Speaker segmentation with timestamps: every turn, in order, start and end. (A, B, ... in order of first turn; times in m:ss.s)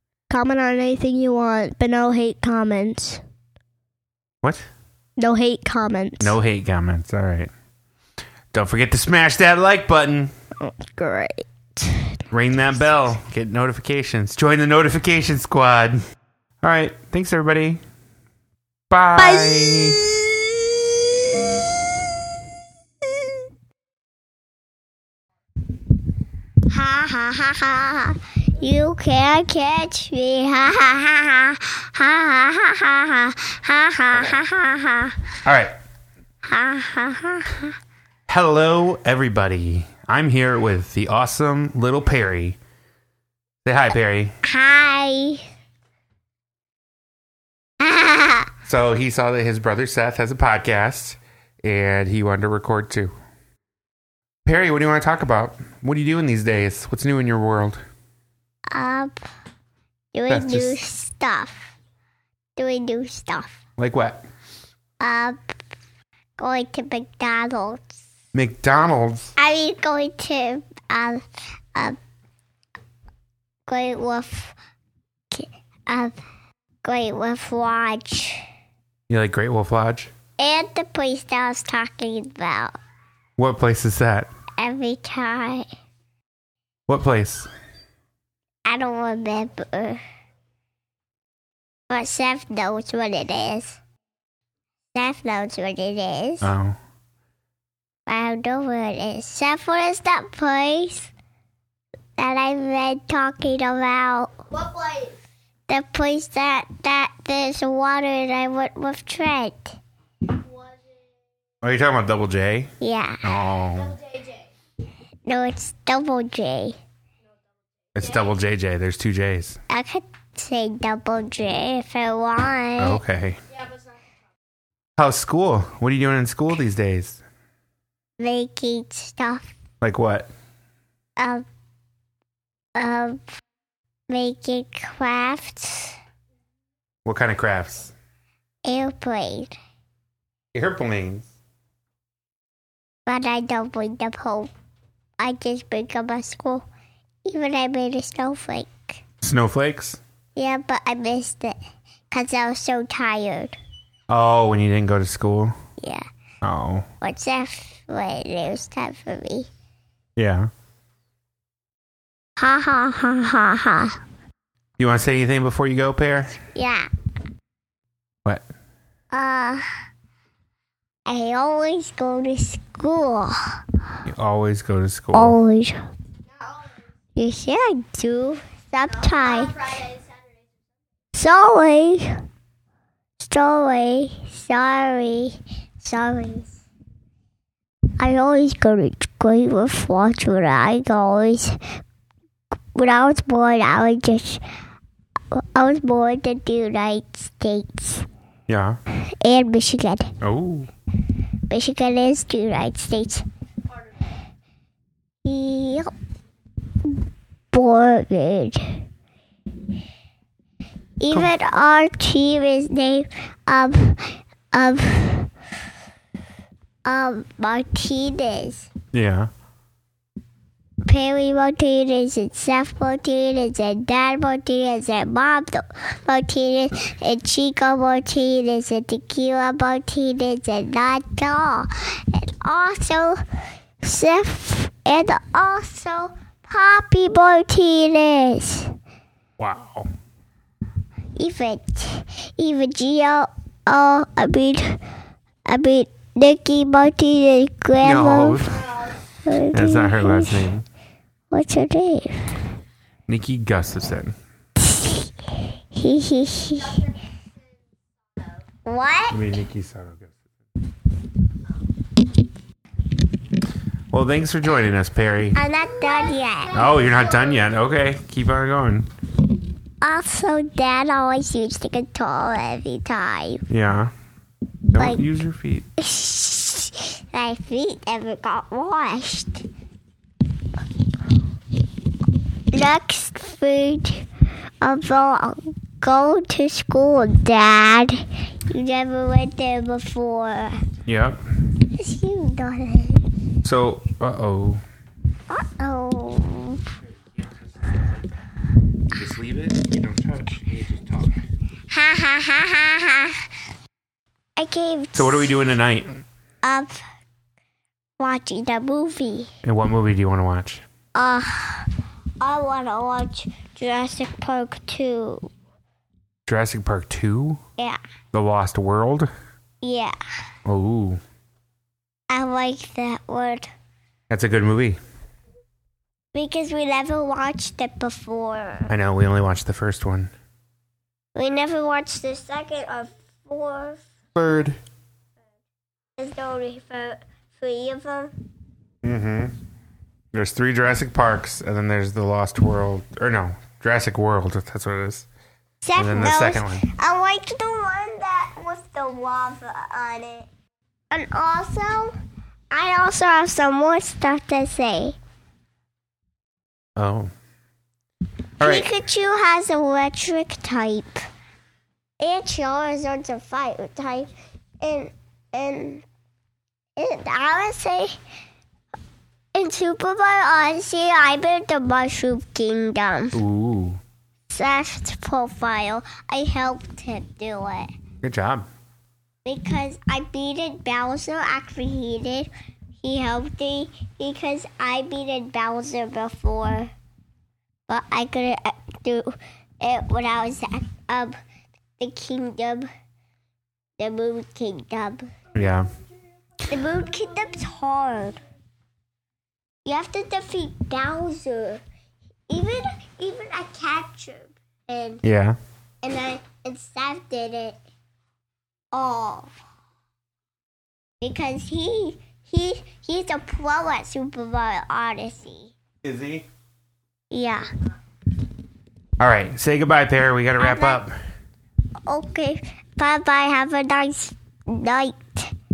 0:00.3-0:03.2 A
0:05.2-0:06.4 A
0:06.2-0:07.5 B
0:08.5-0:10.3 B
0:10.6-0:12.2 A
0:12.3-0:16.0 B
0:16.6-0:17.8 B
0:18.9-0:20.0 B
0:19.2-0:21.6 A
0:26.7-0:35.3 C
0:35.4-0:35.7 B
0:36.4-0:37.7 C
0:38.3-0:42.6 B
0:43.6-0:44.3 B
0:44.4-0:45.4 C
0:47.8-0:48.5 C
0:48.6-0:53.1 B
0:54.4-0:57.8 B
0:58.7-0:59.2 C
1:00.1-1:01.6 C
1:00.3-1:00.8 B
1:02.6-1:03.6 C
1:03.8-1:04.2 B
1:05.0-1:05.5 C
1:06.4-1:07.9 C
1:08.3-1:09.3 B
1:09.4-1:11.2 C
1:13.7-1:14.5 C
1:15.3-1:16.2 C
1:16.8-1:18.4 C
1:19.1-1:20.1 B
1:20.4-1:22.7 C
1:23.4-1:24.3 B
1:24.6-1:25.7 C
1:26.9-1:27.5 B
1:28.6-1:30.0 C
1:31.9-1:33.8 C
1:34.9-1:36.5 C
1:36.4-1:36.8 B
1:38.1-1:41.1 C
1:42.2-1:44.4 C
1:44.5-1:45.1 A
1:45.7-1:49.8 C
1:51.6-1:52.7 B
1:52.8-1:53.2 C
1:53.2-1:54.0 B
1:55.2-1:56.8 C
1:57.9-1:59.6 B
1:59.7-2:03.0 C
2:02.8-2:03.4 B
2:05.0-2:07.2 B
2:08.2-2:09.5 C
2:09.8-2:10.3 B
2:11.2-2:11.4 C
2:12.8-2:13.2 C
2:14.1-2:15.9 C
2:17.0-2:17.9 B
2:18.6-2:19.5 C
2:20.5-2:21.3 B
2:23.1-2:24.5 C
2:25.2-2:26.6 C
2:27.2-2:29.0 C
2:29.2-2:30.0 B
2:30.4-2:31.6 C
2:32.1-2:33.6 C
2:34.1-2:35.5 B
2:35.8-2:36.0 C
2:36.4-2:36.9 B
2:37.0-2:39.5 C
2:40.2-2:40.5 B
2:42.4-2:44.0 C
2:44.8-2:46.4 B
2:46.5-2:46.9 C
2:49.1-2:49.6 C
2:51.0-2:53.4 C
2:54.0-2:55.4 B
2:55.1-2:55.8 C
2:57.2-2:59.8 C
3:01.1-3:02.1 C
3:03.2-3:06.5 C
3:08.0-3:11.6 C
3:12.7-3:14.4 C
3:15.3-3:18.0 C
3:18.5-3:18.8 B
3:19.2-3:20.1 C
3:20.2-3:20.7 B
3:21.5-3:23.2 C
3:25.2-3:25.9 C
3:27.5-3:28.8 C
3:31.0-3:35.3 C
3:36.8-3:38.7 C
3:38.9-3:39.3 B
3:40.8-3:53.2 C
3:53.8-3:58.7 C
3:59.4-3:59.9 B
4:01.2-4:04.8 C
4:05.5-4:08.7 C
4:07.8-4:08.7 B
4:09.2-4:10.5 C
4:09.5-4:10.6 B
4:11.3-4:12.2 C
4:13.1-4:14.2 B
4:14.6-4:15.0 C
4:15.7-4:16.8 C
4:18.6-4:19.2 C
4:19.1-4:20.1 B
4:23.9-4:25.4 B
4:25.3-4:27.0 C
4:26.5-4:28.9 B
4:29.8-4:33.4 C
4:33.5-4:33.9 B
4:34.7-4:35.7 B
4:34.8-4:35.0 C
4:35.8-4:39.4 C
4:42.5-4:44.1 C
4:44.6-4:50.5 C
4:50.8-4:51.2 B
4:51.8-4:53.1 C
4:53.4-4:54.6 B
4:55.3-4:56.6 C
4:58.9-5:01.2 B
5:01.7-5:03.2 C
5:04.4-5:05.4 C
5:04.9-5:06.0 B
5:06.4-5:06.8 C
5:08.0-5:09.3 C
5:09.4-5:10.6 B
5:10.9-5:11.7 C
5:12.2-5:15.3 C
5:16.2-5:17.4 B
5:18.1-5:19.1 B
5:19.6-5:20.0 C
5:20.4-5:21.0 B
5:22.1-5:23.5 C
5:24.1-5:24.8 B
5:26.1-5:28.7 C
5:28.7-5:30.1 B
5:31.1-5:33.8 C
5:34.2-5:34.6 B
5:36.0-5:38.1 C
5:38.8-5:39.3 B
5:40.1-5:45.1 B
5:45.6-5:50.3 C
5:45.8-5:46.6 B
5:50.9-5:51.9 C
5:52.5-5:55.0 C
5:56.8-5:57.1 B
5:58.4-6:01.0 C
5:58.4-5:58.7 B
6:02.0-6:04.1 C
6:04.6-6:05.8 C
6:06.8-6:07.9 C
6:09.3-6:13.2 C
6:13.1-6:13.8 B
6:14.3-6:17.7 C
6:18.0-6:18.5 B
6:19.2-6:26.7 C
6:27.7-6:31.2 C
6:31.8-6:32.7 C
6:33.8-6:35.1 C
6:35.3-6:35.7 B
6:36.4-6:38.2 C
6:39.6-6:41.6 C
6:42.3-6:45.0 C
6:45.0-6:45.4 B
6:45.8-6:47.6 C
6:48.7-6:49.3 C
6:51.0-6:55.5 C
6:55.8-6:56.2 B
6:57.1-6:57.4 C
6:59.0-7:00.9 B
7:00.4-7:00.8 C
7:01.9-7:05.3 C